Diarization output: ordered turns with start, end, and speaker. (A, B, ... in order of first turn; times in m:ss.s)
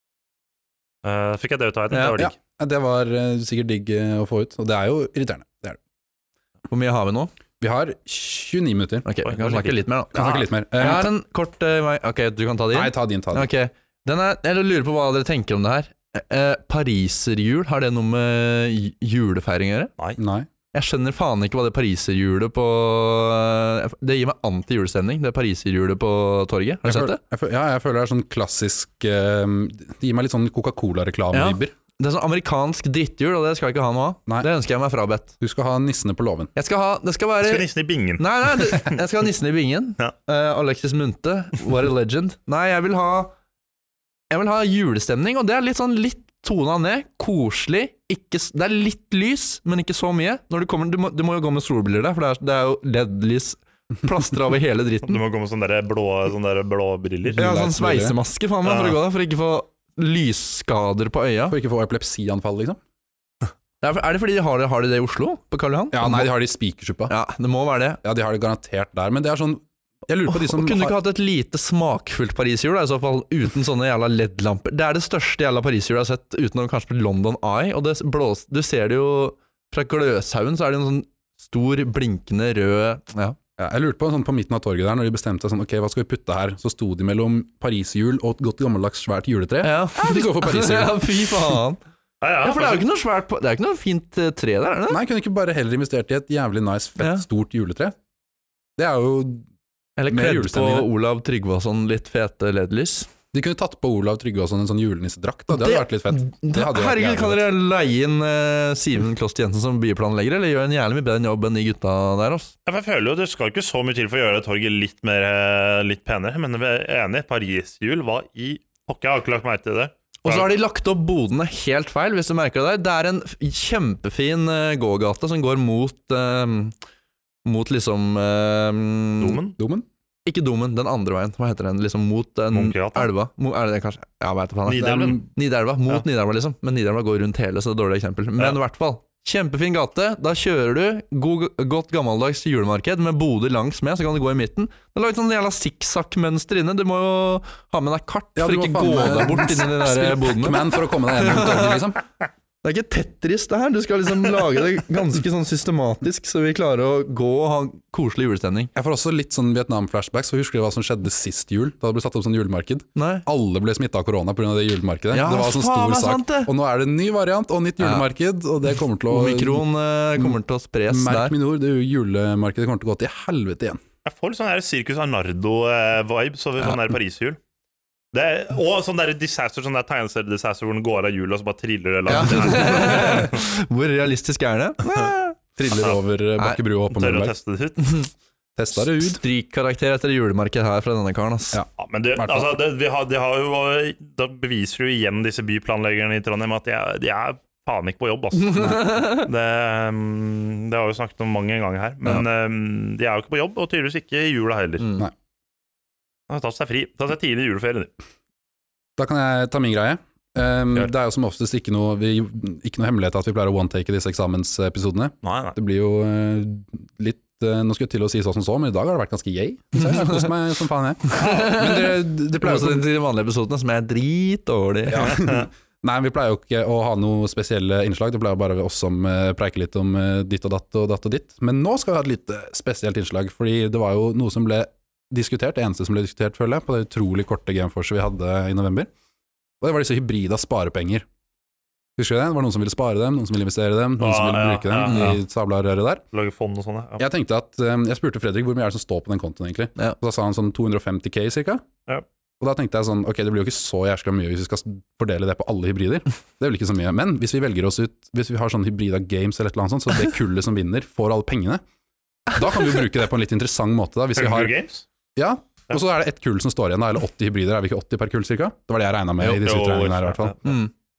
0:01.0-0:02.3 A
0:01.9-0:02.2 B
0:02.2-0:05.8 C
0:06.7-0:07.3 B
0:07.6-0:09.0 C
0:09.0-0:19.9 B
0:09.2-0:09.8 A
0:10.1-0:11.1 C
0:12.7-0:13.5 C
0:20.2-0:20.5 C
0:20.7-0:27.2 B
0:26.8-0:31.7 C
0:31.3-0:35.3 B
0:35.4-0:36.5 C
0:36.5-0:37.7 B
0:37.4-0:39.0 A
0:38.2-0:43.3 B
0:44.3-0:55.2 B
0:55.0-0:57.4 A
0:57.3-0:58.2 C
0:57.4-1:01.6 B
0:58.6-0:59.0 A
1:01.5-1:02.8 C
1:03.8-1:06.3 B
1:05.9-1:07.1 C
1:07.1-1:08.0 B
1:08.0-1:11.0 C
1:10.3-1:23.4 B
1:23.6-1:31.6 C
1:29.6-1:31.8 B
1:32.2-1:32.8 A
1:32.4-1:35.0 B
1:34.9-1:38.0 C
1:37.0-1:37.2 B
1:38.8-1:39.5 C
1:40.0-1:43.1 B
1:40.1-1:40.9 C
1:43.3-1:47.4 C
1:45.5-1:52.5 B
1:52.6-2:00.5 A
2:00.2-2:06.7 B
2:07.4-2:09.4 B
2:09.2-2:09.6 A
2:09.6-2:09.8 C
2:10.2-2:31.8 B
2:12.5-2:13.1 A
2:14.7-2:15.2 A
2:28.4-2:32.0 C
2:32.6-2:38.7 B
2:38.7-2:49.6 C
2:42.9-2:43.2 B
2:45.1-2:46.5 B
2:47.8-2:48.1 B
2:49.1-2:51.3 B
2:50.2-2:53.8 C
2:54.0-2:57.4 A
2:58.1-3:03.4 A
3:02.1-3:05.4 B
3:05.6-3:07.3 C
3:06.9-3:08.0 A
3:07.8-3:08.1 B
3:08.6-3:09.2 C
3:09.0-3:11.6 B
3:11.5-3:12.5 C
3:11.8-3:24.9 A
3:18.4-3:19.3 B
3:24.8-3:25.1 B
3:26.3-3:27.9 A
3:29.0-3:42.8 C
3:35.2-3:35.6 A
3:41.1-3:45.2 B
3:44.9-3:58.9 C
3:45.1-3:45.4 A
3:59.6-4:01.0 C
4:02.0-4:06.0 C
4:04.0-4:05.2 A
4:04.8-4:05.2 B
4:06.1-4:07.0 A
4:07.0-4:11.6 C
4:12.4-4:21.6 C
4:22.3-4:24.5 C
4:24.2-4:24.8 A
4:25.2-4:30.5 C
4:29.3-4:30.4 A
4:30.4-4:30.7 B